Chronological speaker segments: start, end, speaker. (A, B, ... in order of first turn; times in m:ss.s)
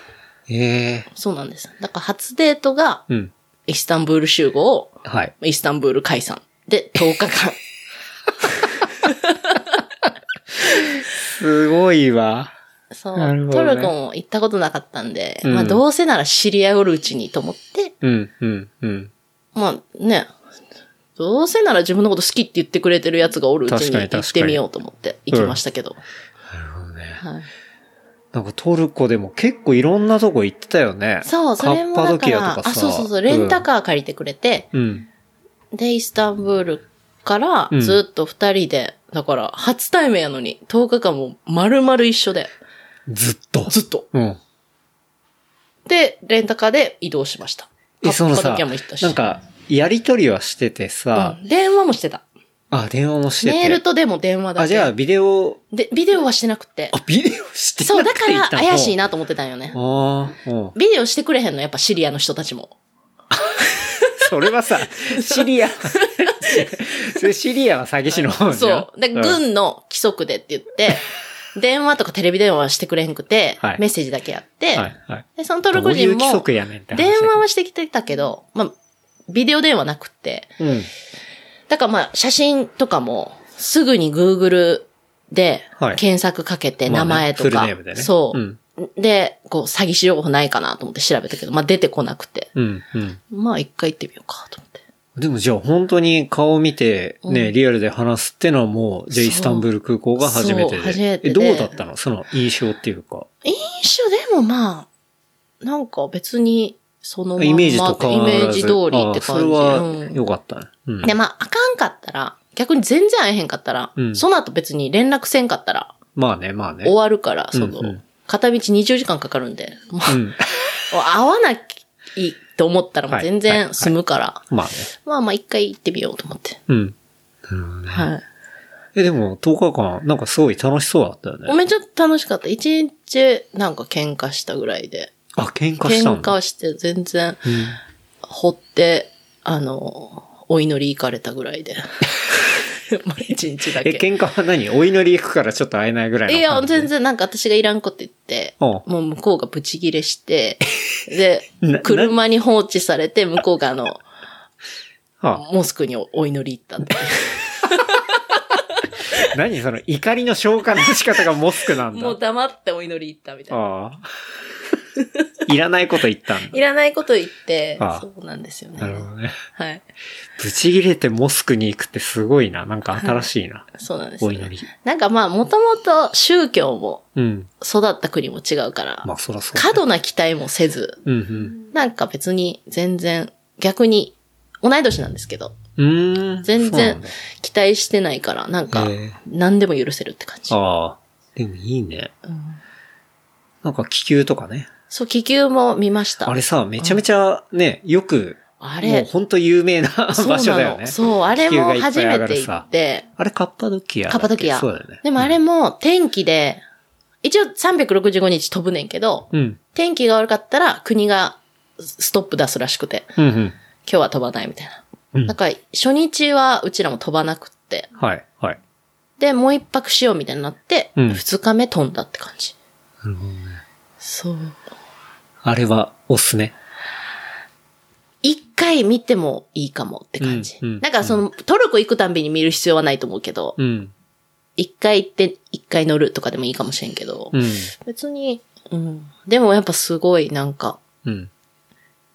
0:00.5-0:01.1 A
0:01.1-0:03.0 B
0:03.7-0:07.6 B
0:05.0-0:05.3 A
0:09.0-0:09.6 B
0:10.7-0:12.5 A
0:12.9-0:17.9 B
0:13.2-0:13.9 A
0:15.4-0:15.8 A
0:18.0-0:19.1 A
0:19.5-0:20.3 B
0:21.2-0:26.0 B
0:23.7-0:24.6 A
0:25.3-0:25.6 A
0:26.5-0:27.2 A
0:27.2-0:27.5 B
0:28.3-0:33.6 A
0:31.2-0:34.7 B
0:34.7-0:35.1 A
0:35.7-0:42.5 B
0:37.7-0:38.0 A
0:43.1-0:44.4 A
0:43.7-0:44.0 B
0:45.9-0:49.2 B
0:48.0-0:51.4 A
0:51.1-0:52.2 B
0:52.7-0:53.8 A
0:53.4-0:54.9 B
0:54.6-0:55.6 A
0:55.7-0:57.0 B
0:56.9-0:59.0 A
0:57.8-0:59.8 B
0:59.7-1:00.7 A
1:00.7-1:02.8 B
1:03.6-1:04.2 B
1:04.2-1:09.4 A
1:05.1-1:06.7 B
1:08.2-1:18.7 B
1:14.7-1:17.4 A
1:19.3-1:20.6 B
1:20.6-1:20.9 A
1:21.7-1:32.5 B
1:26.9-1:28.6 A
1:32.6-1:33.2 A
1:33.3-1:34.8 B
1:35.2-1:43.3 A
1:37.2-1:37.5 B
1:39.1-1:39.7 B
1:40.2-1:41.7 B
1:43.4-1:44.9 B
1:45.6-1:50.2 B
1:47.4-1:51.1 A
1:51.0-1:55.9 B
1:54.0-1:54.2 A
1:56.2-1:56.9 A
1:56.8-2:00.2 B
1:57.5-1:58.0 A
2:00.1-2:00.4 A
2:00.9-2:04.4 B
2:03.1-2:03.9 A
2:04.5-2:04.9 A
2:05.0-2:06.6 B
2:06.7-2:06.9 A
2:07.4-2:08.1 A
2:07.9-2:08.2 B
2:08.9-2:11.6 A
2:11.5-2:15.1 B
2:15.4-2:16.3 A
2:15.8-2:17.7 B
2:17.4-2:17.8 A
2:18.2-2:24.0 B
2:23.8-2:26.9 A
2:26.3-2:34.0 B
2:31.6-2:32.1 A
2:35.3-2:38.2 B
2:39.1-2:42.2 A
2:41.9-2:43.6 B
2:43.5-2:44.0 A
2:45.4-2:46.6 A
2:46.5-2:49.8 B
2:47.8-2:48.0 A
2:48.8-2:49.4 A
2:50.4-2:54.7 A
2:53.0-2:53.2 B
2:53.8-2:57.0 B
2:57.2-2:57.5 A
2:57.6-3:01.0 B
2:59.0-2:59.8 A
3:01.0-3:01.6 A
3:01.5-3:05.6 B
3:05.8-3:07.1 A
3:06.4-3:10.6 B
3:08.7-3:09.2 A
3:10.5-3:12.1 A
3:12.3-3:12.6 B
3:13.6-3:14.7 A
3:14.9-3:17.0 B
3:16.2-3:25.3 A
3:18.6-3:19.1 B
3:20.1-3:23.0 B
3:24.1-3:26.6 B
3:27.2-3:33.2 B
3:29.3-3:29.6 A
3:33.2-3:33.5 A
3:33.8-3:37.9 B
3:38.0-3:38.6 A
3:39.2-3:42.5 B
3:41.0-3:41.2 A
3:43.0-3:43.6 A
3:44.0-3:44.6 B
3:45.4-3:46.5 A
3:48.2-3:53.6 B
3:50.2-3:51.2 A
3:53.6-3:53.9 A
3:54.6-4:00.8 B
3:57.3-3:57.7 A
4:01.0-4:01.3 A